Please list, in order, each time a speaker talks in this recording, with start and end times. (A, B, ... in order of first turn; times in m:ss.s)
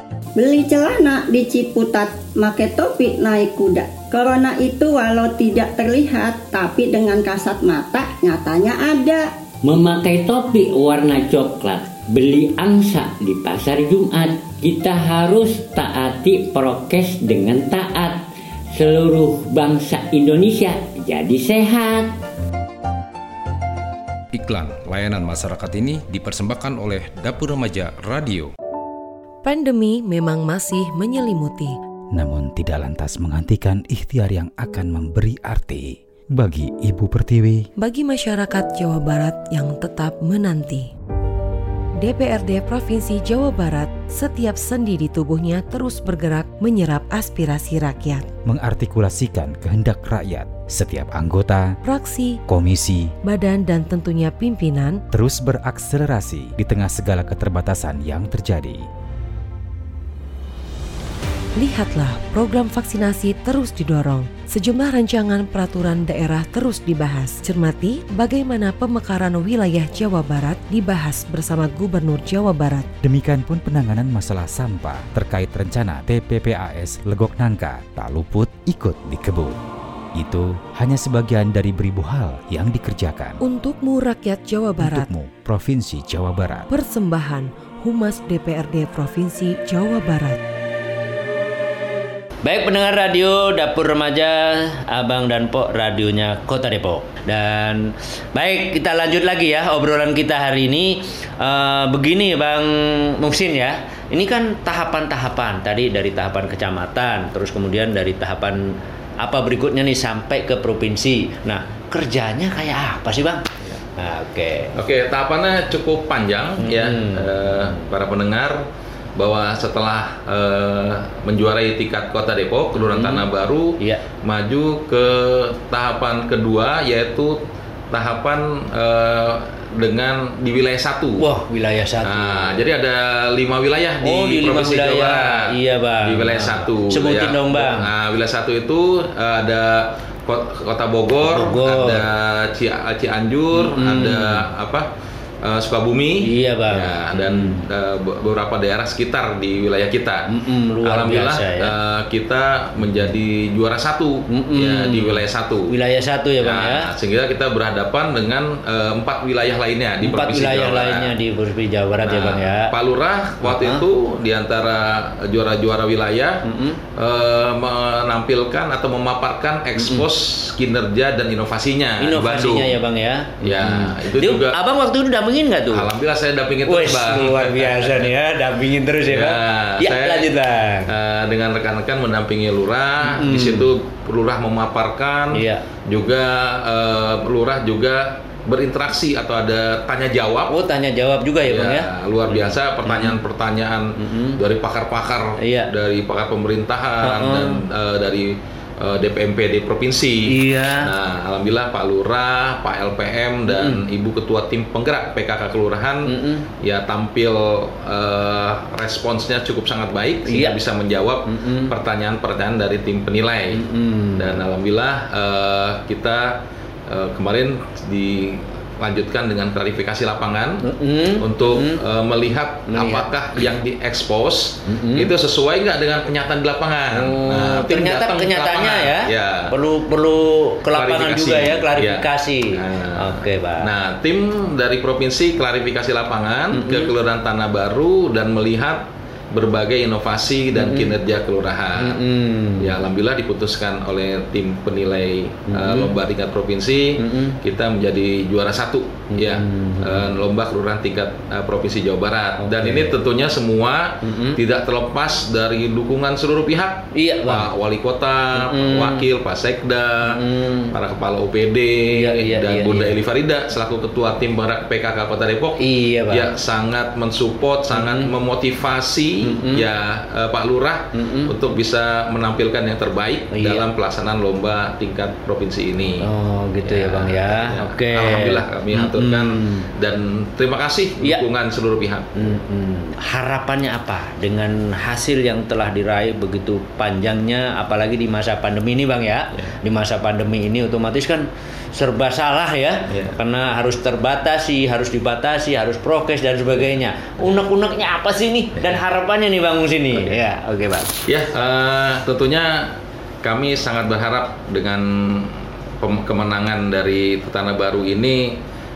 0:00.4-0:09.3 A
0:09.6-0:22.1 B
0:24.3-0:28.5 C
0:29.4-0:31.8 D
0:32.1-0:37.7 E
0:37.8-0:40.9 D
0:42.0-0:48.3 D
0:48.4-0:51.8 E
0:51.8-0:52.4 D
0:52.5-0:53.1 E
0:53.2-0:55.0 D
0:55.1-0:58.8 E
1:01.6-1:12.9 D
1:13.0-1:19.6 E
1:20.2-1:23.4 E
1:23.4-1:25.1 D
1:24.8-1:26.7 E
1:26.7-1:30.4 D
1:32.4-1:54.7 F
1:54.8-1:58.6 G
1:56.6-1:57.8 F
1:59.2-2:11.2 G
2:02.8-2:03.2 F
2:11.2-2:12.6 F
2:12.0-2:15.5 G
2:14.0-2:17.8 F
2:16.0-2:24.9 G
2:21.2-2:22.0 F
2:23.6-2:24.4 F
2:25.4-2:30.3 G
2:26.2-2:27.7 F
2:30.3-2:31.7 F
2:30.8-2:35.7 G
2:34.3-2:36.9 F
2:36.4-2:41.1 G
2:40.0-2:42.7 F
2:42.1-2:46.4 G
2:43.4-2:43.8 F
2:46.4-2:46.8 F
2:47.0-2:52.8 G
2:49.8-2:50.0 F
2:52.0-2:55.8 F
2:53.4-2:54.5 G
2:55.7-2:58.1 G
2:56.7-3:00.9 F
2:59.1-3:00.3 G
3:00.9-3:10.5 G
3:03.0-3:03.7 F
3:05.3-3:05.6 F
3:10.5-3:13.2 F
3:11.4-3:33.6 G
3:14.0-3:14.4 F
3:15.4-3:15.7 F
3:17.0-3:17.6 F
3:20.3-3:20.9 F
3:23.5-3:23.8 F
3:26.1-3:26.4 F
3:30.3-3:30.6 F
3:31.3-3:31.7 F
3:33.5-3:34.4 F
3:34.2-3:40.6 G
3:40.6-3:41.8 F
3:41.2-3:49.5 G
3:42.7-3:43.1 F
3:44.7-3:45.1 F
3:46.9-3:53.7 F
3:50.7-4:02.0 G
3:56.5-3:56.9 F
4:00.6-4:00.9 F
4:01.8-4:02.8 F
4:02.6-4:36.0 G
4:05.5-4:05.9 F
4:07.0-4:07.4 F
4:09.1-4:10.1 F
4:12.4-4:13.0 F
4:14.0-4:14.4 F
4:16.9-4:17.5 F
4:18.3-4:19.0 F
4:20.1-4:20.7 F
4:21.9-4:23.0 F
4:25.6-4:26.3 F
4:27.7-4:28.1 F
4:29.2-4:29.6 F
4:30.9-4:31.3 F
4:33.3-4:33.7 F
4:36.0-4:39.7 F
4:36.6-4:42.4 G
4:42.2-5:00.9 F
4:52.9-4:53.2 G
5:01.1-5:08.4 G